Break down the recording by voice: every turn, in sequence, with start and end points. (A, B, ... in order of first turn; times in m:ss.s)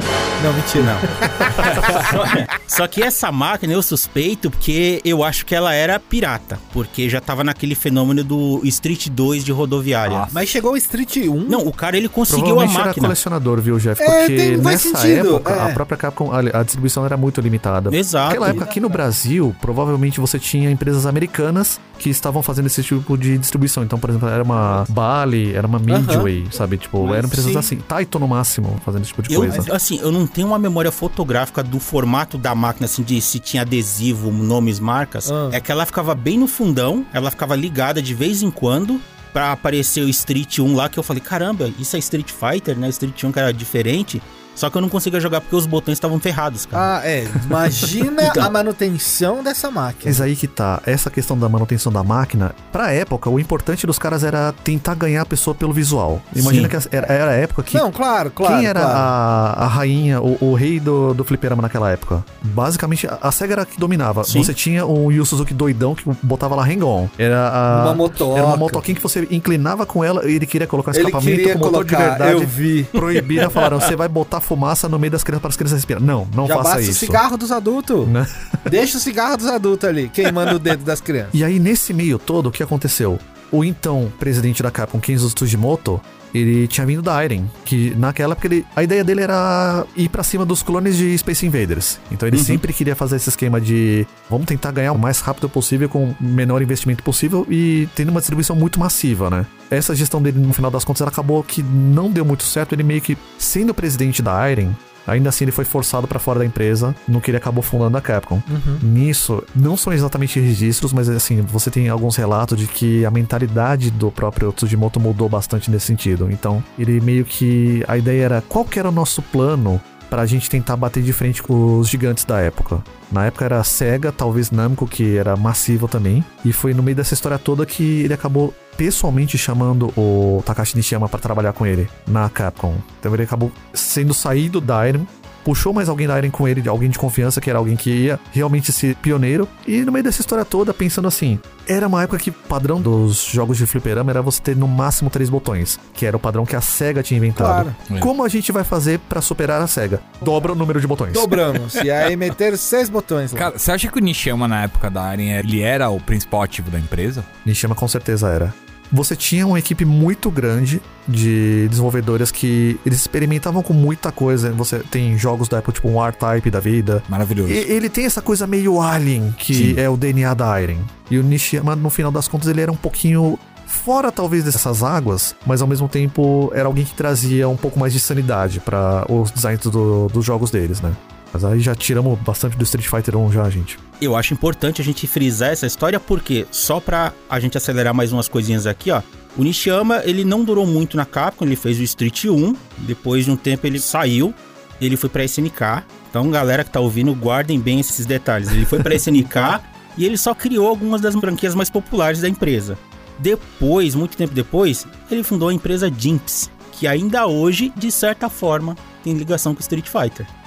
0:00.4-0:02.3 A
0:00.8-0:10.3 B
0:01.6-0:02.1 C
0:10.0-0:10.4 C
0:10.3-0:11.6 A
0:11.5-0:13.2 B
0:12.3-0:29.7 D
0:14.0-0:15.8 A
0:17.9-0:18.6 B
0:18.3-0:18.9 A
0:25.9-0:26.3 A
0:27.0-0:27.7 A
0:29.3-0:46.9 B
0:29.4-0:29.7 A
0:35.3-0:35.6 A
0:46.7-0:50.3 A
0:48.2-0:48.5 B
0:50.0-0:57.9 D
0:56.4-0:56.7 B
0:57.7-0:59.1 A
0:58.4-1:17.2 D
1:04.3-1:04.5 B
1:07.7-1:08.8 A
1:10.9-1:13.5 A
1:16.4-1:18.1 A
1:18.0-1:18.7 D
1:18.6-1:21.4 A
1:21.3-2:31.4 D
1:32.3-1:32.6 B
1:48.5-1:48.8 A
2:27.4-2:27.8 A
2:31.1-2:33.5 A
2:33.4-2:37.3 C
2:37.4-3:03.8 D
2:47.1-2:47.7 C
2:49.5-2:49.8 C
3:04.0-3:30.3 B